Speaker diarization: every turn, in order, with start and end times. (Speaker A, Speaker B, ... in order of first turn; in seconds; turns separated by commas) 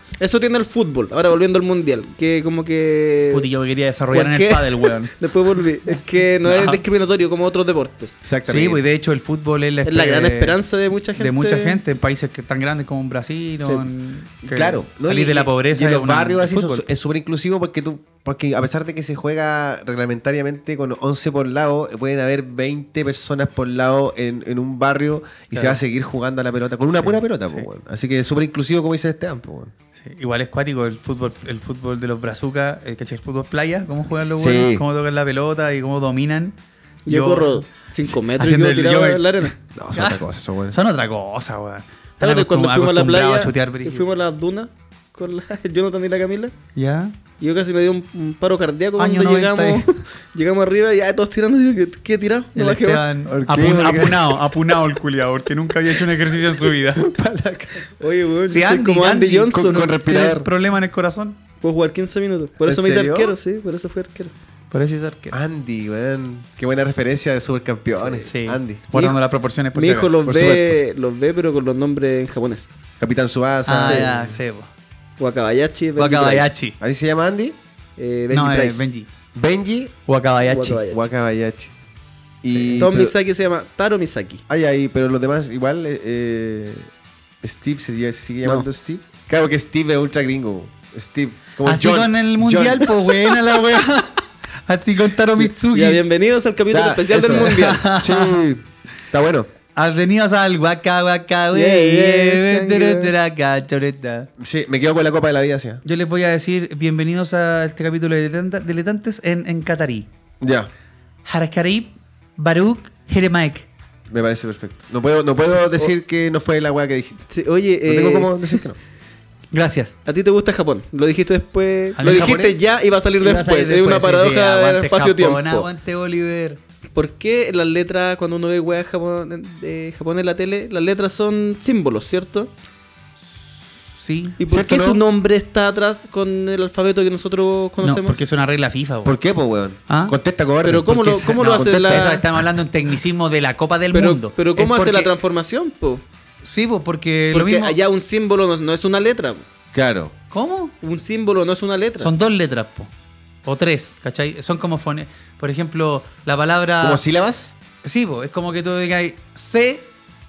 Speaker A: 0.2-3.5, Speaker B: 3.3-5.1, Speaker A: 4.1-8.1, Speaker B: 5.9-6.8, Speaker C: 8.2-8.8, Speaker B: 8.4-10.6, Speaker A: 9.8-11.8, Speaker B: 11.2-16.9, Speaker A: 13.6-13.9, Speaker C: 14.4-29.7, Speaker B: 25.5-25.8, Speaker B: 26.9-27.6, Speaker B: 30.0-36.5, Speaker C: 34.4-34.8, Speaker A: 37.0-39.5, Speaker B: 37.1-40.2, Speaker C: 39.8-40.8, Speaker B: 40.7-44.0, Speaker A: 42.2-46.5, Speaker B: 46.8-47.1, Speaker A: 47.4-53.0, Speaker B: 49.0-49.9, Speaker B: 52.5-57.0, Speaker C: 53.2-54.5, Speaker C: 56.9-57.9, Speaker A: 58.0-59.9, Speaker B: 58.5-61.4, Speaker C: 59.5-60.5, Speaker A: 61.6-64.3, Speaker C: 62.6-63.4, Speaker B: 64.7-65.4, Speaker C: 65.3-68.8, Speaker A: 68.0-68.3, Speaker B: 68.3-70.2, Speaker A: 69.7-72.7, Speaker C: 70.2-70.8, Speaker C: 73.0-74.3, Speaker B: 73.7-74.7, Speaker A: 73.7-74.1, Speaker A: 75.2-76.5, Speaker B: 76.0-76.8, Speaker C: 76.8-77.5, Speaker A: 78.0-78.8, Speaker B: 78.3-79.1, Speaker C: 79.3-79.9, Speaker B: 80.1-80.8, Speaker A: 80.5-81.0, Speaker C: 80.9-81.7, Speaker C: 82.4-83.1, Speaker B: 82.5-82.9, Speaker A: 82.8-84.4, Speaker C: 84.5-86.9, Speaker C: 87.4-93.4, Speaker B: 91.6-96.0, Speaker A: 95.4-97.8, Speaker C: 96.7-99.5, Speaker B: 97.2-98.3, Speaker B: 99.8-104.3, Speaker A: 101.5-103.1, Speaker C: 104.4-105.8, Speaker B: 105.8-110.1, Speaker C: 110.4-110.7, Speaker B: 111.2-113.7, Speaker C: 114.1-117.3, Speaker A: 117.3-118.6, Speaker C: 117.9-118.8, Speaker B: 119.5-119.9, Speaker A: 120.0-125.7, Speaker B: 122.0-122.5, Speaker C: 122.0-122.5, Speaker B: 123.2-126.6, Speaker A: 126.9-132.5, Speaker B: 133.9-134.4, Speaker A: 134.4-138.2, Speaker C: 134.5-135.0, Speaker B: 137.8-139.2, Speaker C: 139.0-142.4, Speaker B: 139.9-140.2, Speaker A: 140.6-142.2, Speaker B: 141.0-145.1, Speaker A: 143.9-146.0, Speaker B: 146.4-147.8, Speaker A: 147.3-149.4, Speaker C: 149.7-150.1, Speaker B: 150.3-150.7, Speaker A: 150.8-152.1, Speaker B: 152.0-152.9, Speaker B: 153.4-157.0, Speaker C: 156.8-157.5, Speaker B: 157.8-159.9